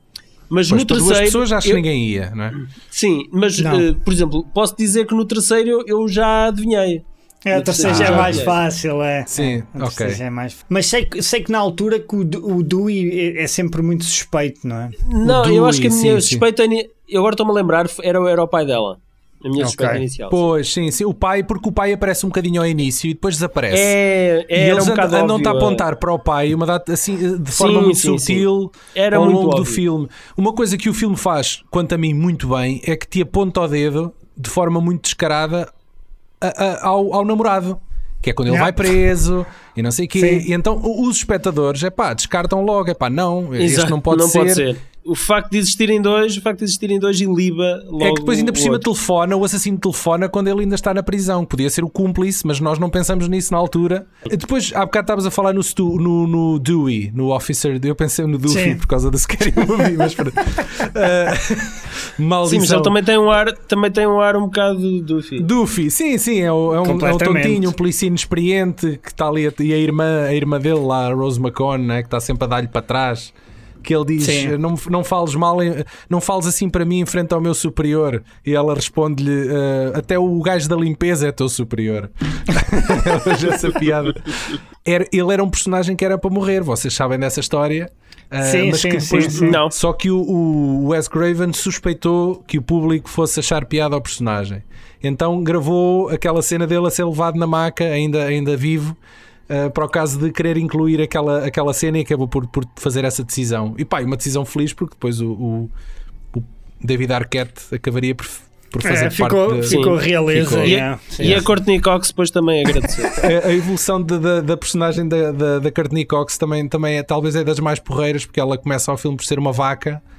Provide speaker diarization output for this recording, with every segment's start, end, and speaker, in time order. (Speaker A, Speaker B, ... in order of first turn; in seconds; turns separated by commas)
Speaker A: 0.5-1.8, Speaker B: 0.7-2.6, Speaker A: 2.6-8.6, Speaker C: 3.6-3.9, Speaker C: 7.5-15.0, Speaker B: 7.8-8.5, Speaker B: 9.3-10.2, Speaker A: 15.0-20.4, Speaker B: 15.2-16.5, Speaker C: 19.6-20.0, Speaker B: 20.3-24.0, Speaker A: 23.7-25.9, Speaker B: 24.5-35.7, Speaker A: 27.6-29.8, Speaker B: 36.4-44.7, Speaker C: 38.5-38.9, Speaker C: 40.2-40.5, Speaker A: 43.6-48.8, Speaker B: 48.0-63.0, Speaker C: 58.5-58.8, Speaker A: 62.5-65.5, Speaker B: 65.4-99.0, Speaker C: 66.8-67.7, Speaker C: 74.2-74.5, Speaker C: 88.4-89.6, Speaker A: 89.3-89.8, Speaker B: 99.5-105.7, Speaker B: 106.3-111.5, Speaker C: 108.8-111.4, Speaker A: 109.7-110.0, Speaker A: 110.6-113.2, Speaker B: 113.2-120.0